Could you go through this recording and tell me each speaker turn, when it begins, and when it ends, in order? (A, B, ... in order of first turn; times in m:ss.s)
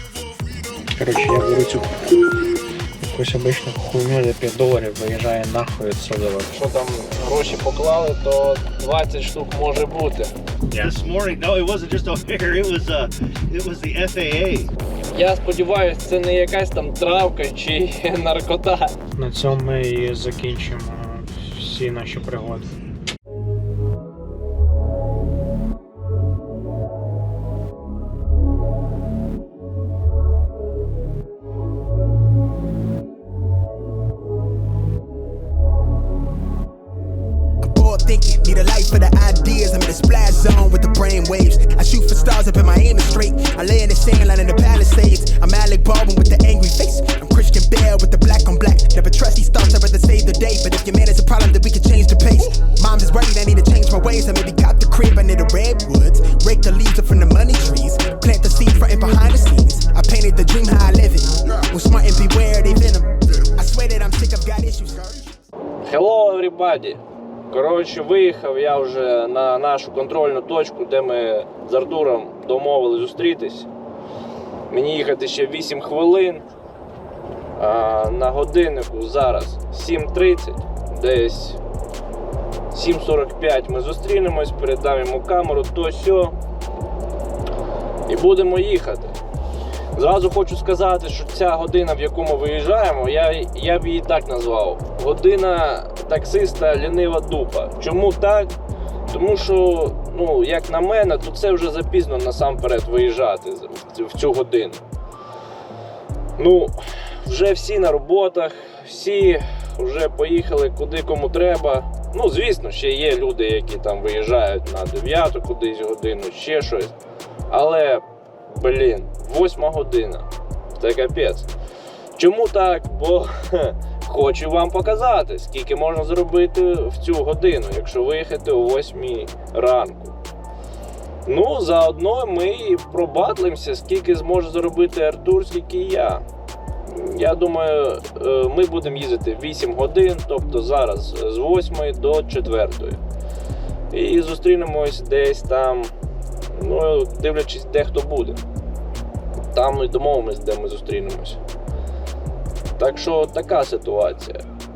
0:01.0-0:02.2 A
0:03.0-0:06.5 A
0:06.5-0:10.3 B
0:10.7-0:10.9 A
0:10.8-0:14.7 C
0:15.1-0:19.0 B
0:19.2-0:22.7 A
0:37.6-1:05.3 D
1:05.8-1:13.7 B
1:14.7-1:16.4 B
1:17.6-1:21.6 B
1:22.7-1:26.4 B
1:28.1-1:29.2 B
1:30.0-1:38.5 B
1:39.1-1:44.8 B
1:46.4-1:56.9 B
1:57.5-2:01.5 B
2:02.2-2:10.2 B
2:11.3-2:16.2 B
2:16.9-2:23.0 B
2:23.9-2:25.9 B
2:26.5-2:28.4 B
2:29.5-2:31.4 B
2:32.8-2:34.4 B